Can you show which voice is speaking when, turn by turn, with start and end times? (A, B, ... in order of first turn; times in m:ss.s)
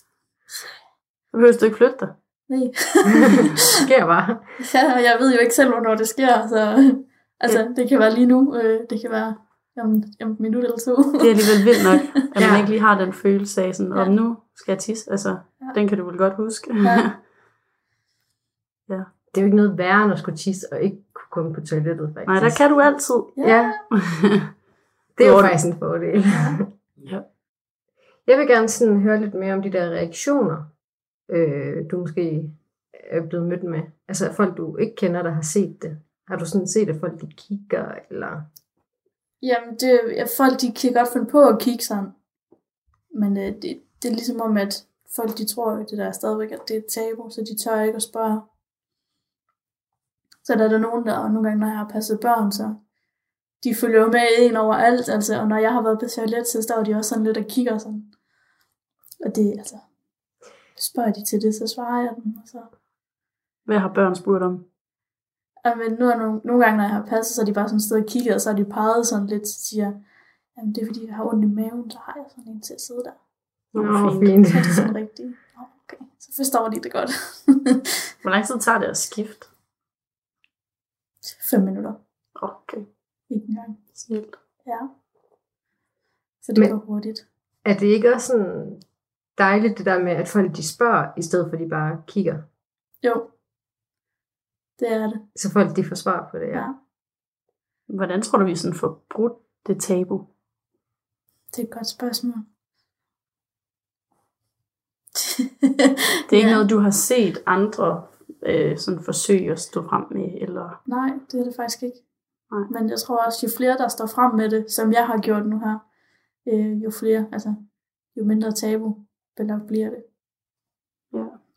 0:01.3-0:02.1 A
0:02.5-0:03.7 B
0:03.2-0:04.6 C
0:04.6-0:11.9 B
0:11.2-0:17.1 A
0:12.4-0:12.7 C
0:16.8-0:17.1 B
0:19.3-0:22.6 C
0:22.3-0:23.4 A
0:23.4-0:23.8 B
0:23.4-0:23.8 C
0:23.9-0:24.5 A
0:25.2-0:26.7 C
0:25.2-0:25.6 A
0:28.3-0:30.7 C
0:31.3-0:38.5 C
0:39.4-0:42.1 B
0:43.1-0:48.5 B
0:50.4-0:52.8 B
0:53.6-0:58.1 B
0:59.2-0:59.8 B
1:00.8-1:02.7 B
1:03.7-1:04.6 A
1:05.6-1:10.0 B
1:10.6-1:13.2 B
1:13.7-1:14.9 C
1:13.8-1:14.3 A
1:14.1-1:17.8 B
1:18.2-1:19.5 A
1:21.4-1:22.0 B
1:22.4-1:22.9 A
1:23.3-1:23.8 B
1:24.0-1:24.4 A
1:24.6-1:24.9 B
1:26.4-1:27.3 B
1:27.6-1:28.8 C
1:29.4-1:32.5 C
1:34.8-1:35.2 B
1:35.4-1:36.7 C
1:37.9-1:40.3 A
1:41.5-1:42.5 B
1:45.2-1:46.6 B
1:46.3-1:50.8 A
1:50.9-1:52.0 B
1:52.7-1:55.8 B
1:56.4-1:57.6 B
1:58.1-2:00.0 B
2:01.1-2:01.4 A